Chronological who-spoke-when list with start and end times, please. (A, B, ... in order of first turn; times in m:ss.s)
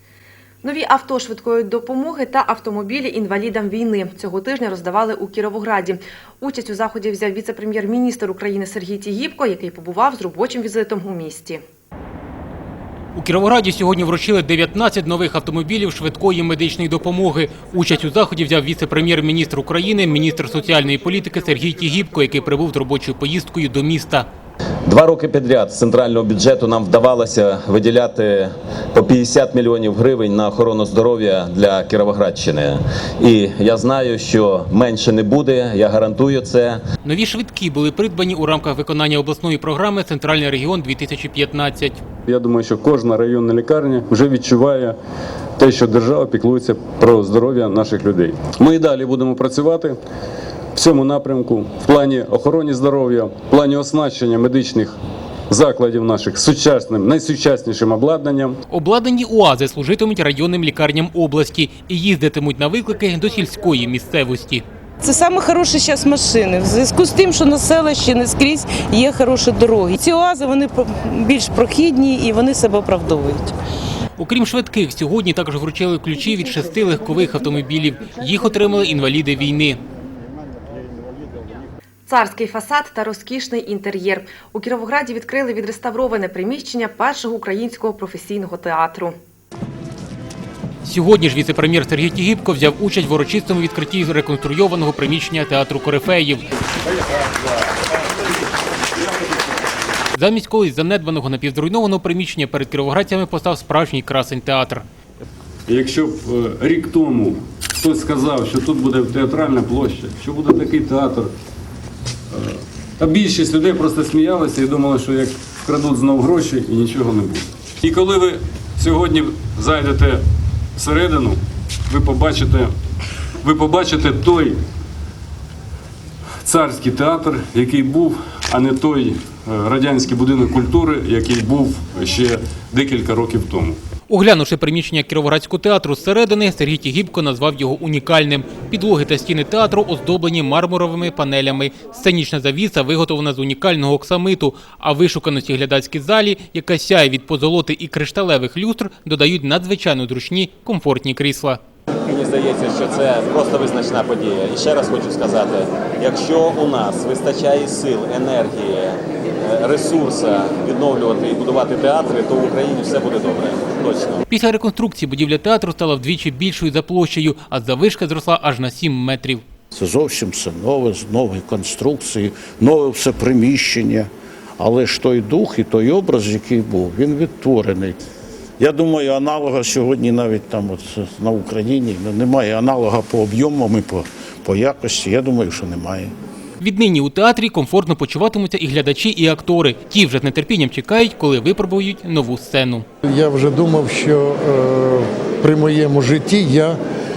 0:00.6-0:11.6 A
0:13.2-0:24.3 B
0:24.9-0:36.8 C
0:37.0-0:42.0 B
0:42.3-0:45.0 D
0:45.6-0:50.0 D
0:50.8-0:55.0 D
0:55.5-0:58.6 D
0:58.7-1:04.6 B
1:05.0-1:13.6 E
1:14.2-1:19.8 B
1:22.1-1:29.2 A
1:30.8-1:36.4 B
1:40.2-1:44.8 B
1:45.7-1:51.3 D
1:52.3-2:00.2 D
2:00.8-2:02.7 D
2:03.4-2:04.6 D
2:06.4-2:13.8 D
2:14.1-2:31.6 B
2:32.1-2:44.2 F
2:44.3-2:49.4 B
2:49.7-2:58.0 G
2:58.6-3:06.1 G
3:06.6-3:12.9 B
3:13.0-3:16.8 H